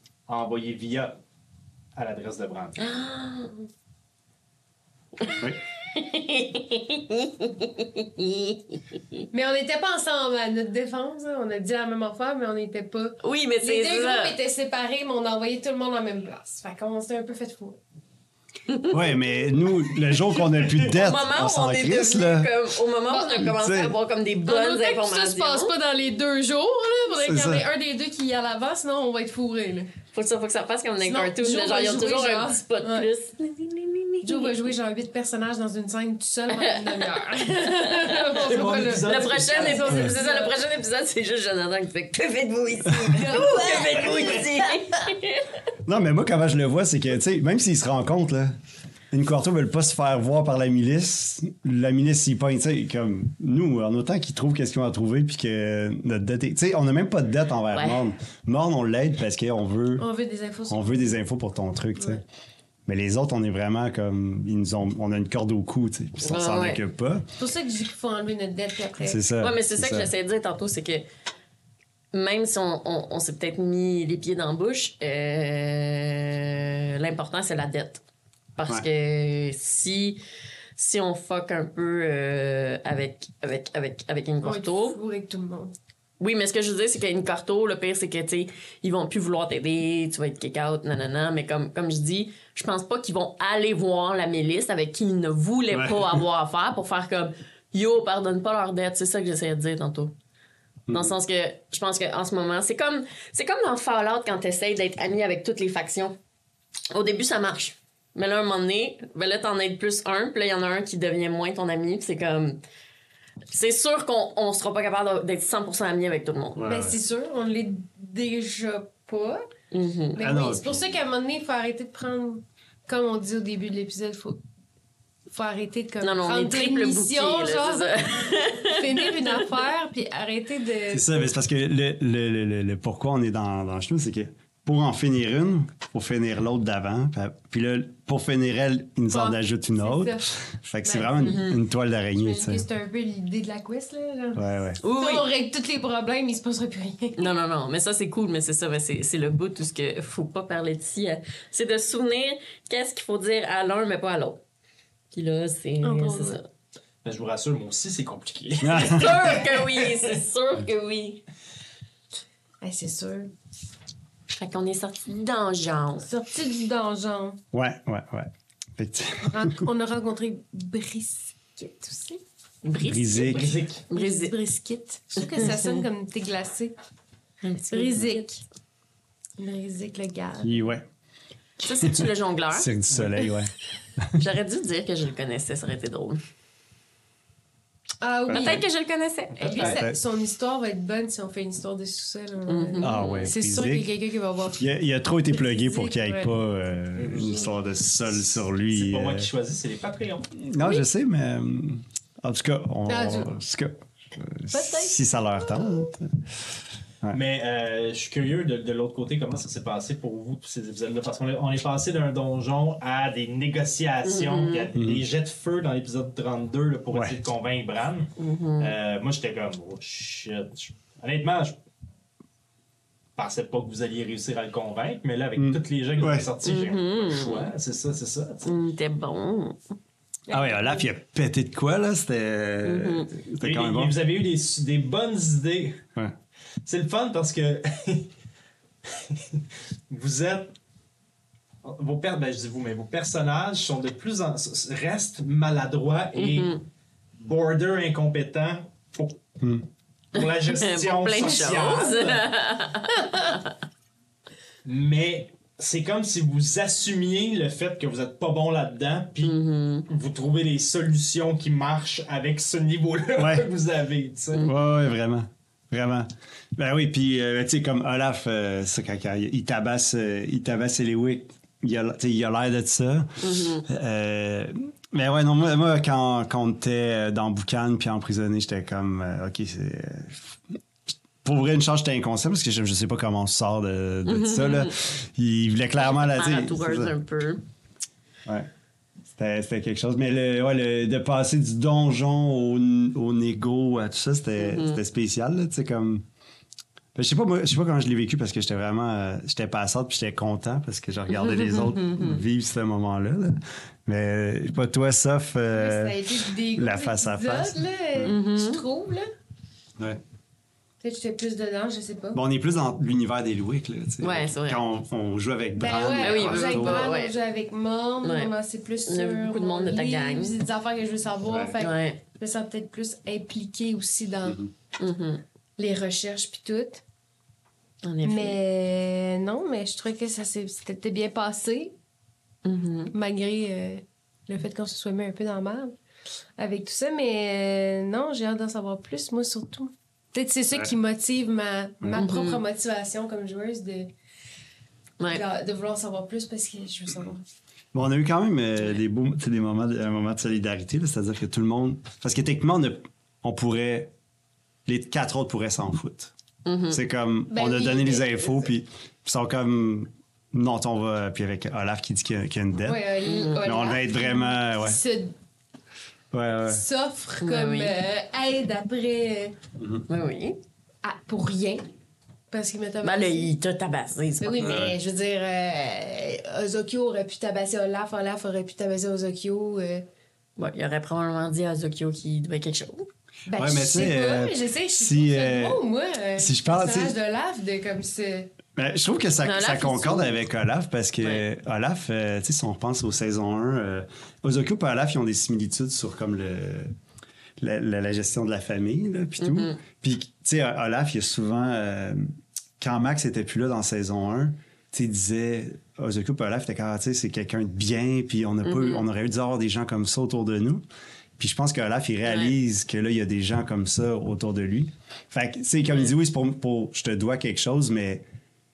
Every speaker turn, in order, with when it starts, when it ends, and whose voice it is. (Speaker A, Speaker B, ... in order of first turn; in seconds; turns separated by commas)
Speaker A: 0.3-1.2, Speaker A: 1.9-2.8, Speaker B: 2.8-3.5, Speaker B: 5.2-8.8, Speaker C: 9.3-17.8, Speaker B: 13.2-14.3, Speaker B: 18.7-19.1, Speaker D: 18.9-22.5, Speaker B: 20.7-25.7, Speaker C: 23.1-23.5, Speaker D: 23.4-24.0, Speaker C: 24.5-29.9, Speaker D: 27.3-27.7, Speaker B: 30.1-34.7, Speaker C: 31.0-33.1, Speaker C: 34.2-40.6, Speaker B: 36.5-38.3, Speaker A: 38.3-40.0, Speaker B: 39.0-45.5, Speaker D: 42.9-43.2, Speaker C: 43.1-44.8, Speaker A: 43.5-44.5, Speaker D: 45.9-48.5, Speaker D: 49.1-60.1, Speaker B: 57.7-58.0, Speaker C: 60.0-61.1, Speaker D: 60.7-62.2, Speaker C: 62.0-62.2, Speaker D: 62.9-67.3, Speaker B: 66.2-66.8, Speaker C: 67.4-69.2, Speaker D: 69.0-70.1, Speaker B: 69.4-71.0, Speaker B: 72.1-78.0, Speaker B: 78.6-80.2, Speaker B: 80.8-85.0, Speaker C: 84.4-85.7, Speaker B: 86.2-100.1, Speaker D: 95.7-96.2, Speaker D: 100.9-101.2, Speaker B: 100.9-106.2, Speaker B: 106.9-112.6, Speaker B: 113.5-116.7, Speaker D: 116.6-117.0, Speaker C: 116.7-119.5, Speaker B: 119.7-120.2, Speaker C: 120.2-124.4, Speaker D: 120.2-121.0, Speaker C: 125.3-131.2, Speaker B: 126.0-129.6, Speaker D: 130.9-142.7, Speaker C: 139.1-140.3, Speaker C: 140.8-141.5, Speaker B: 141.2-141.6, Speaker C: 142.2-147.3, Speaker D: 144.4-144.8, Speaker B: 144.8-145.3, Speaker B: 147.2-154.4, Speaker B: 155.1-156.4, Speaker C: 155.8-156.4, Speaker A: 157.0-160.2, Speaker D: 158.6-159.2, Speaker B: 158.7-161.2, Speaker C: 162.6-163.3, Speaker B: 164.3-166.1, Speaker C: 166.0-167.4, Speaker D: 167.5-169.7, Speaker C: 169.2-172.2, Speaker B: 172.6-174.3, Speaker D: 172.8-173.6, Speaker A: 173.2-173.8, Speaker C: 173.9-176.8, Speaker B: 175.2-175.8, Speaker B: 177.4-178.2, Speaker C: 177.7-178.4, Speaker C: 179.4-180.6, Speaker D: 180.4-180.9, Speaker B: 181.6-182.7, Speaker D: 181.8-184.2, Speaker A: 182.9-183.2, Speaker B: 184.2-186.2, Speaker C: 188.0-188.7, Speaker D: 188.3-188.6, Speaker B: 188.3-189.8, Speaker A: 189.4-189.8, Speaker C: 189.4-194.7, Speaker D: 189.6-190.0, Speaker B: 192.5-193.3, Speaker D: 192.8-193.9, Speaker D: 194.6-199.3, Speaker C: 195.3-196.3, Speaker A: 197.0-197.5, Speaker A: 198.1-200.3, Speaker D: 200.4-206.3, Speaker C: 200.6-200.8, Speaker C: 202.9-203.3, Speaker C: 204.5-205.9, Speaker A: 207.1-221.6, Speaker B: 214.0-214.7, Speaker D: 214.8-215.0, Speaker B: 218.2-218.8, Speaker A: 223.2-228.5, Speaker D: 225.4-226.3, Speaker B: 226.4-227.5, Speaker B: 228.4-229.6, Speaker C: 230.3-230.9, Speaker D: 230.3-234.0, Speaker B: 232.6-233.1, Speaker A: 233.4-235.8, Speaker A: 236.7-238.1, Speaker A: 238.9-240.5, Speaker A: 241.6-246.6, Speaker B: 246.2-246.6, Speaker A: 247.2-249.2, Speaker A: 250.1-252.3, Speaker B: 250.2-253.5, Speaker A: 254.7-259.4, Speaker B: 259.2-259.9, Speaker A: 259.9-264.5, Speaker D: 263.2-263.5, Speaker D: 264.4-280.4, Speaker B: 273.2-273.6, Speaker D: 281.2-286.9, Speaker B: 284.1-284.8, Speaker B: 285.8-287.4, Speaker D: 289.1-296.0, Speaker B: 294.4-294.8, Speaker D: 296.9-306.0, Speaker B: 301.1-302.2, Speaker C: 305.5-309.1, Speaker D: 306.6-308.2, Speaker B: 308.1-308.6, Speaker C: 310.8-312.2, Speaker D: 312.1-316.9, Speaker B: 314.0-314.6, Speaker C: 315.6-324.4, Speaker B: 316.0-317.1, Speaker B: 318.0-318.3, Speaker B: 318.9-320.4, Speaker D: 321.3-321.6, Speaker B: 321.6-322.0, Speaker D: 324.3-324.5, Speaker B: 324.8-325.2, Speaker C: 325.6-326.8, Speaker B: 327.8-328.4, Speaker C: 328.0-331.8, Speaker B: 332.4-332.9, Speaker C: 332.9-335.7, Speaker C: 336.4-343.9, Speaker B: 342.0-342.4, Speaker C: 345.1-347.2, Speaker D: 347.7-353.9, Speaker D: 354.7-356.1, Speaker B: 356.5-356.8, Speaker D: 356.7-362.9, Speaker C: 357.3-358.5, Speaker C: 362.7-365.1, Speaker B: 363.1-363.5, Speaker D: 363.4-364.8, Speaker D: 366.1-366.6, Speaker C: 366.5-369.4, Speaker B: 367.2-367.7, Speaker D: 369.6-369.9, Speaker B: 369.9-370.4, Speaker C: 370.8-371.6, Speaker C: 372.3-373.3, Speaker B: 372.8-374.7, Speaker C: 374.2-379.9, Speaker D: 374.4-374.8, Speaker B: 380.4-382.9, Speaker C: 383.3-388.3, Speaker D: 383.4-385.6, Speaker D: 386.2-387.0, Speaker D: 388.6-396.7, Speaker B: 389.2-390.2, Speaker D: 397.4-402.1, Speaker B: 399.2-399.6, Speaker D: 402.6-410.6, Speaker B: 408.4-408.9, Speaker D: 411.2-418.0, Speaker B: 412.1-412.3, Speaker B: 415.7-415.9